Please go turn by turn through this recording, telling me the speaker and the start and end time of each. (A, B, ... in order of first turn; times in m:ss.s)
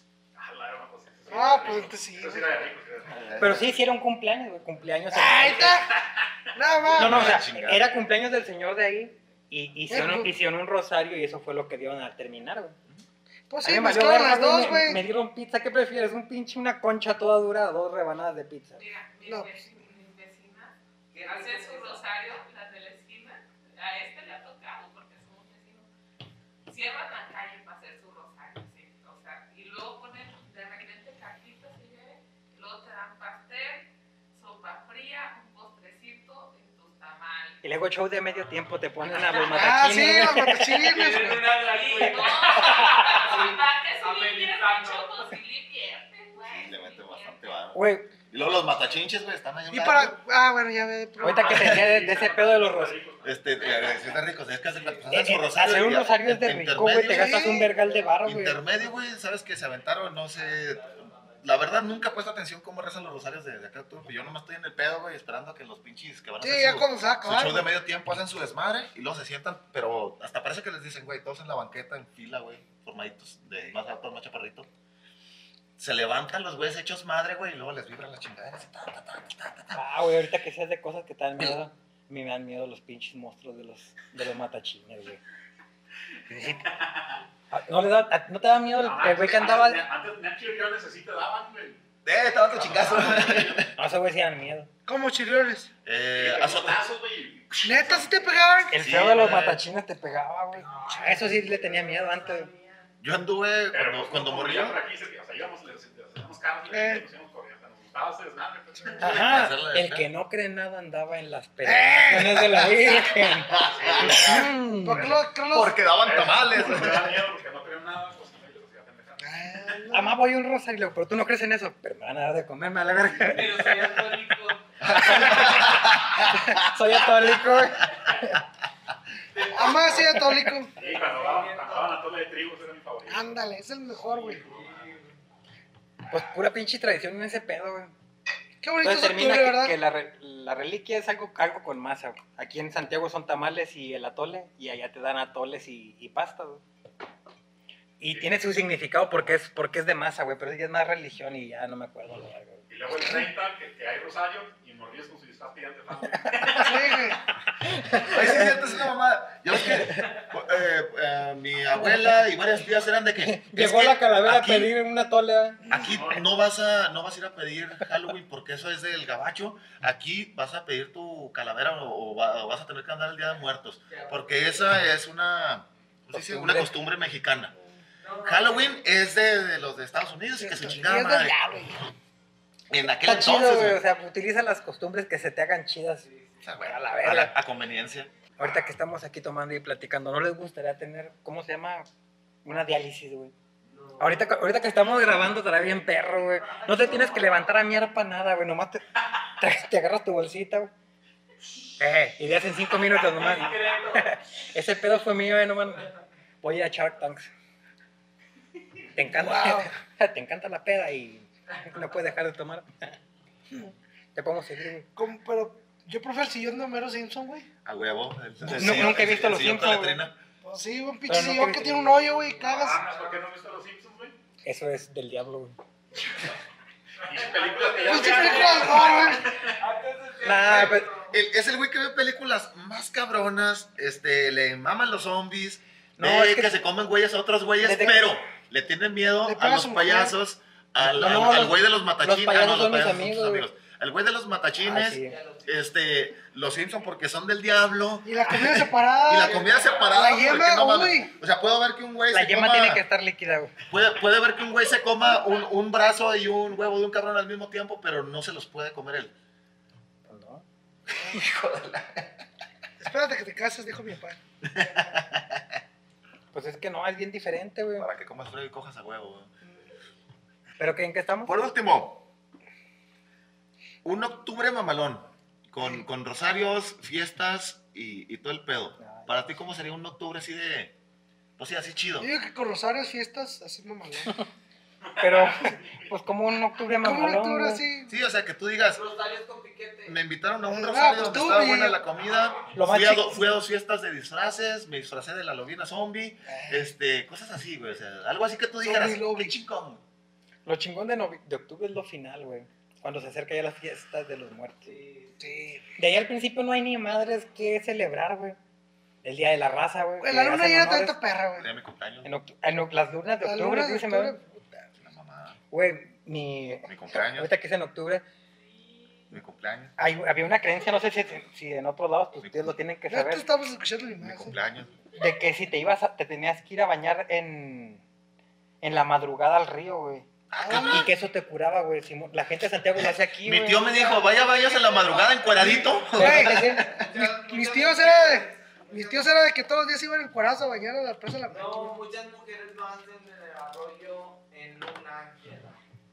0:00.4-0:03.4 A
0:01.3-0:02.5 B
0:03.1-0:03.6 C
0:03.4-0:05.9 D
0:05.1-0:05.9 B
0:06.5-0:07.5 B
0:06.8-0:07.9 C
0:07.0-0:12.8 D
0:09.9-0:10.3 B
0:13.5-0:15.0 B
0:13.6-0:18.8 D
0:18.8-0:25.9 E
0:19.3-0:19.5 B
0:21.1-0:22.1 F
0:26.7-0:37.6 E
0:37.6-0:41.0 D
0:39.5-0:41.6 B
0:40.8-0:45.3 F
0:41.5-0:47.4 E
0:42.0-0:43.3 D
0:46.4-0:50.2 C
0:47.8-0:48.1 D
0:49.7-0:51.9 B
0:51.2-0:53.0 D
0:51.2-0:54.1 A
0:53.2-0:57.6 C
0:55.1-0:58.6 D
0:57.0-0:57.7 B
0:57.7-0:58.1 F
0:58.2-1:14.7 C
1:00.3-1:01.8 F
1:06.4-1:07.7 B
1:15.8-1:19.8 C
1:19.7-1:25.2 D
1:26.3-1:26.6 D
1:26.4-1:27.2 A
1:27.5-1:29.8 D
1:28.7-1:31.8 A
1:32.0-1:33.7 C
1:32.5-1:33.7 A
1:33.8-1:34.7 D
1:34.9-1:35.7 B
1:35.8-1:36.9 C
1:36.2-1:38.1 A
1:37.5-1:38.1 C
1:37.6-1:38.8 B
1:38.7-1:39.6 C
1:38.7-1:42.5 D
1:40.6-1:42.9 F
1:43.0-1:44.8 C
1:43.7-1:49.3 A
1:46.7-1:47.0 B
1:49.0-1:55.2 D
1:49.0-1:50.1 C
1:51.6-1:53.1 B
1:53.5-1:54.4 C
1:53.6-1:55.2 A
1:54.1-1:55.8 B
1:55.5-1:57.3 C
1:56.0-1:59.6 A
1:59.2-2:00.2 B
1:59.9-2:04.1 D
2:03.2-2:05.3 F
2:04.8-2:07.2 C
2:04.9-2:08.4 D
2:09.3-2:12.0 F
2:09.5-2:10.7 B
2:10.2-2:10.5 D
2:10.7-2:13.4 A
2:13.1-2:14.4 B
2:14.0-2:14.8 A
2:14.3-2:15.1 F
2:16.1-2:17.9 D
2:18.6-2:19.8 B
2:18.8-2:26.6 D
2:28.0-2:33.2 D
2:28.1-2:28.4 A
2:32.7-2:37.2 A
2:36.1-2:36.7 D
2:36.6-2:37.2 B
2:37.6-2:38.5 D
2:38.0-2:44.7 C
2:43.2-2:45.6 D
2:45.7-2:57.5 C
2:45.8-2:46.3 A
2:53.9-2:54.8 F
2:56.1-2:56.7 D
2:58.0-2:58.8 F
2:58.2-3:01.4 C
3:00.4-3:01.9 B
3:02.7-3:03.8 C
3:03.0-3:06.1 D
3:06.1-3:06.3 F
3:06.4-3:08.1 C
3:06.6-3:07.3 D
3:08.4-3:11.9 D
3:12.4-3:13.3 D
3:13.7-3:17.6 F
3:14.0-3:20.7 D
3:21.8-3:25.9 D
3:22.7-3:24.2 F
3:26.4-3:27.3 D
3:28.9-3:33.0 D
3:29.1-3:29.7 B
3:34.2-3:34.9 D
3:35.0-3:37.5 B
3:37.6-3:40.2 C
3:38.4-3:40.0 D
3:40.4-3:42.9 B
3:41.1-3:42.3 D
3:42.4-3:44.2 A
3:44.4-3:45.6 D
3:47.0-3:49.6 A
3:47.1-3:51.2 F
3:47.9-3:49.3 B
3:50.2-3:50.9 D
3:50.5-4:12.8 C
3:56.0-3:56.5 D
3:57.6-3:58.0 D
3:59.2-4:00.2 B
4:00.8-4:03.5 D
4:04.6-4:05.2 D
4:05.0-4:05.7 F
4:08.0-4:11.1 B
4:09.1-4:10.2 F
4:12.1-4:13.5 D
4:13.7-4:19.1 C
4:20.1-4:20.4 D
4:20.9-4:22.1 C
4:22.8-4:24.2 B
4:24.4-4:25.4 C
4:26.3-4:27.9 D
4:27.8-4:29.3 C
4:30.6-4:31.3 D
4:31.3-4:32.1 C
4:33.8-4:40.8 C
4:38.8-4:39.2 D
4:41.4-4:42.1 C
4:42.0-4:44.2 B
4:44.9-4:45.7 A
4:45.0-4:47.6 D
4:46.8-4:47.9 B
4:47.9-4:48.8 C
4:48.7-4:50.0 F
4:49.8-4:59.8 C
4:50.5-4:51.8 B
4:52.5-4:53.2 D
4:56.3-4:56.7 B
4:58.6-4:59.4 B
5:00.5-5:04.7 D
5:04.6-5:05.3 F
5:05.2-5:05.7 B
5:05.8-5:08.4 D
5:09.0-5:11.0 D
5:10.0-5:11.5 B
5:11.4-5:12.1 C
5:12.0-5:14.2 D
5:13.2-5:14.7 B
5:14.8-5:15.4 C
5:15.5-5:18.0 D
5:16.7-5:17.3 C
5:19.1-5:19.7 C
5:19.8-5:23.2 D
5:22.2-5:22.6 C
5:22.9-5:24.4 B
5:24.0-5:24.7 C
5:25.0-5:27.8 D
5:28.6-5:33.6 D
5:30.3-5:30.9 C
5:30.4-5:30.9 B
5:32.8-5:36.8 C
5:33.6-5:35.9 F
5:35.9-5:41.8 B
5:35.9-5:36.7 D
5:36.5-5:39.3 F
5:41.3-5:45.6 F